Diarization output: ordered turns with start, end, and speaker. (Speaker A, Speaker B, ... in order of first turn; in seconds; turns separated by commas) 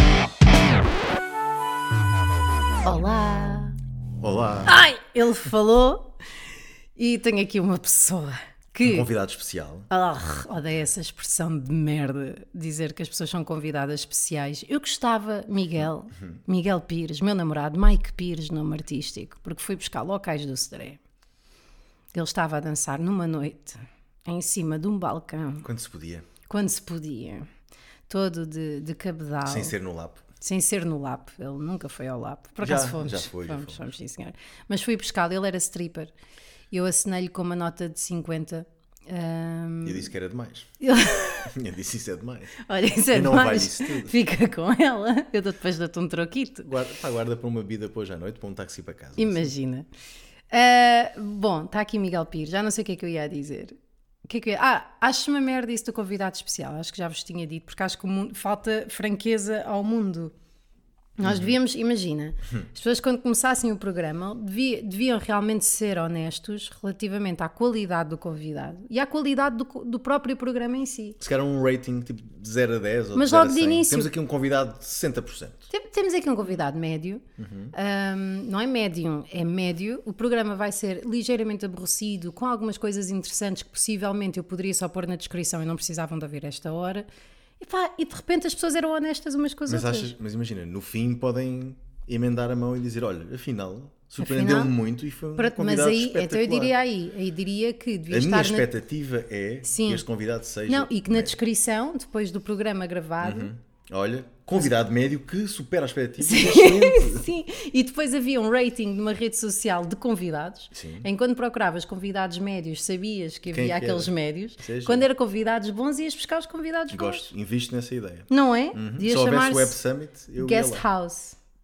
Speaker A: 2.8-3.8, Speaker B: 4.2-4.9, Speaker A: 4.7-6.2, Speaker A: 7.0-9.1, Speaker B: 8.8-9.9, Speaker A: 9.9-21.0, Speaker A: 22.1-25.7, Speaker B: 25.6-26.3, Speaker A: 26.5-27.5, Speaker A: 28.1-29.8, Speaker B: 29.4-30.2, Speaker A: 30.4-36.1, Speaker B: 32.6-33.9, Speaker A: 36.7-40.1, Speaker B: 39.8-40.7, Speaker A: 40.8-41.5, Speaker B: 41.5-42.5, Speaker A: 42.6-46.7, Speaker B: 43.1-44.1, Speaker B: 46.6-49.5, Speaker A: 49.2-49.9, Speaker A: 50.5-53.7, Speaker A: 54.3-60.3, Speaker A: 61.2-71.2, Speaker B: 61.2-61.5, Speaker B: 71.2-75.7, Speaker A: 73.2-74.1, Speaker A: 75.7-87.1, Speaker B: 77.4-77.8, Speaker A: 87.6-90.1, Speaker B: 89.7-96.7, Speaker A: 94.2-94.7, Speaker A: 95.4-98.7, Speaker B: 98.1-101.4, Speaker A: 99.6-100.0, Speaker A: 100.7-103.5, Speaker B: 103.2-107.3, Speaker A: 106.2-117.3, Speaker B: 110.7-111.1, Speaker B: 113.5-115.1, Speaker B: 116.9-120.9, Speaker A: 118.3-119.8, Speaker A: 120.4-121.4